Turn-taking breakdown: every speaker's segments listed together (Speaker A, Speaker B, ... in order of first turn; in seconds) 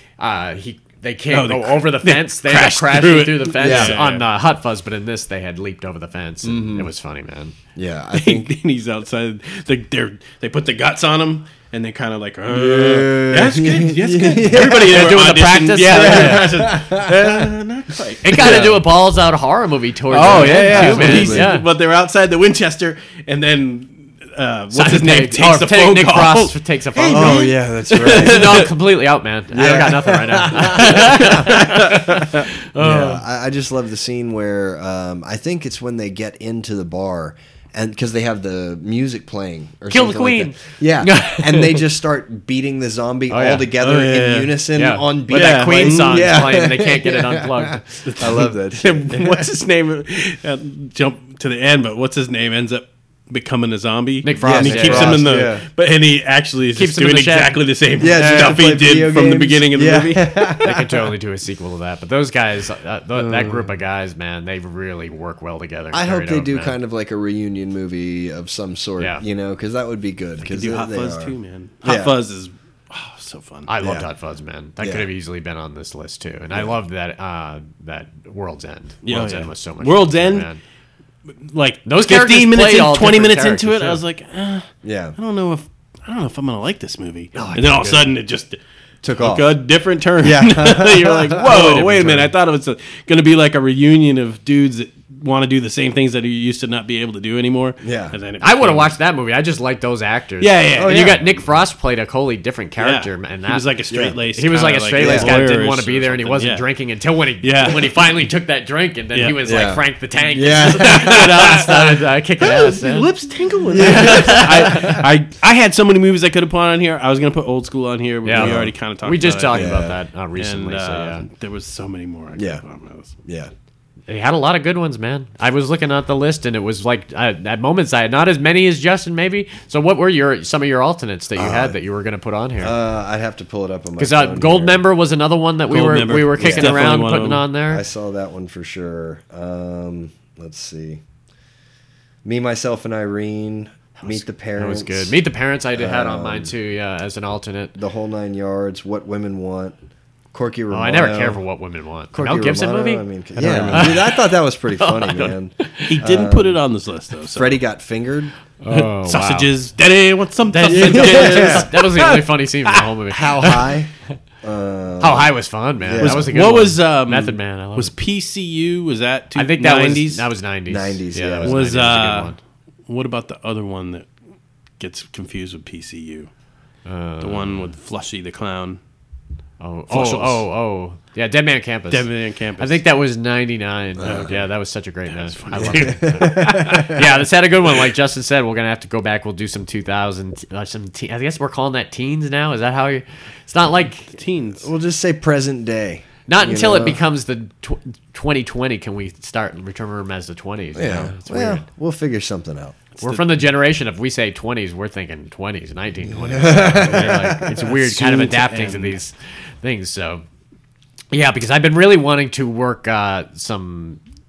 Speaker A: 0.2-7.5, 14.5-16.5, 18.2-21.7, 24.7-27.5, 28.1-33.2, 39.9-41.8, 43.3-43.7, 44.8-47.8, 54.2-55.3, 56.7-57.6, 60.6-66.8, 73.7-80.6, 81.8-84.0, 87.3-88.1, 91.5-92.2, 98.4-113.1, 113.8-115.0, 118.2-121.3, 124.1-132.8, 134.0-137.8, 144.0-147.8, 150.7-153.0, 153.7-154.2, 154.8-155.9, 158.6-159.5, 160.5-163.7, 165.0-167.9, 169.3-172.4, 176.9-177.7, 179.6-182.1, 182.6-194.2, 196.3-201.6, 203.0-210.2, 211.1-214.0
Speaker B: 1.3-4.2, 8.1-18.8, 20.1-28.7, 43.8-44.6, 45.3-46.4, 48.0-60.4, 70.4-73.7, 79.0-80.5, 81.4-88.6, 89.2-98.9, 100.4-101.2, 102.8-106.7, 107.4-108.1, 110.7-119.8, 120.4-123.1, 135.7-137.4, 153.4-154.1, 155.9-157.6, 158.7-162.8, 166.0-170.3, 171.4-172.3, 172.9-174.1, 174.8-176.3, 177.2-178.8, 179.9-180.4, 181.9-182.8, 184.0-184.5, 185.1-187.1, 194.1-194.7, 203.0-203.2, 206.8-209.0
Speaker C: 3.6-4.0, 6.4-6.9, 7.8-8.5, 12.5-15.2, 15.9-17.5, 18.3-18.8, 20.1-21.6, 27.1-28.7, 29.5-49.4, 54.4-55.6, 58.0-61.1, 63.2-63.7, 65.9-72.2, 73.8-74.1, 74.8-75.1, 84.8-85.2, 89.0-89.5, 90.2-92.3, 97.8-98.2, 100.8-101.3, 103.9-104.2, 105.0-105.3, 109.4-111.3, 113.7-115.0, 118.3-118.8, 119.5-120.0, 122.4-122.6, 123.3-123.5, 131.4-131.8, 132.6-134.8, 136.4-136.9, 137.7-141.0, 142.2-145.2, 145.8-146.5, 147.8-149.8, 150.3-151.4, 152.1-156.6, 157.3-158.3, 160.7-161.7, 163.1-163.9, 164.4-166.3, 170.7-171.6, 184.0-184.3, 185.5-187.0, 194.6-197.0, 200.8-202.8, 206.2-207.5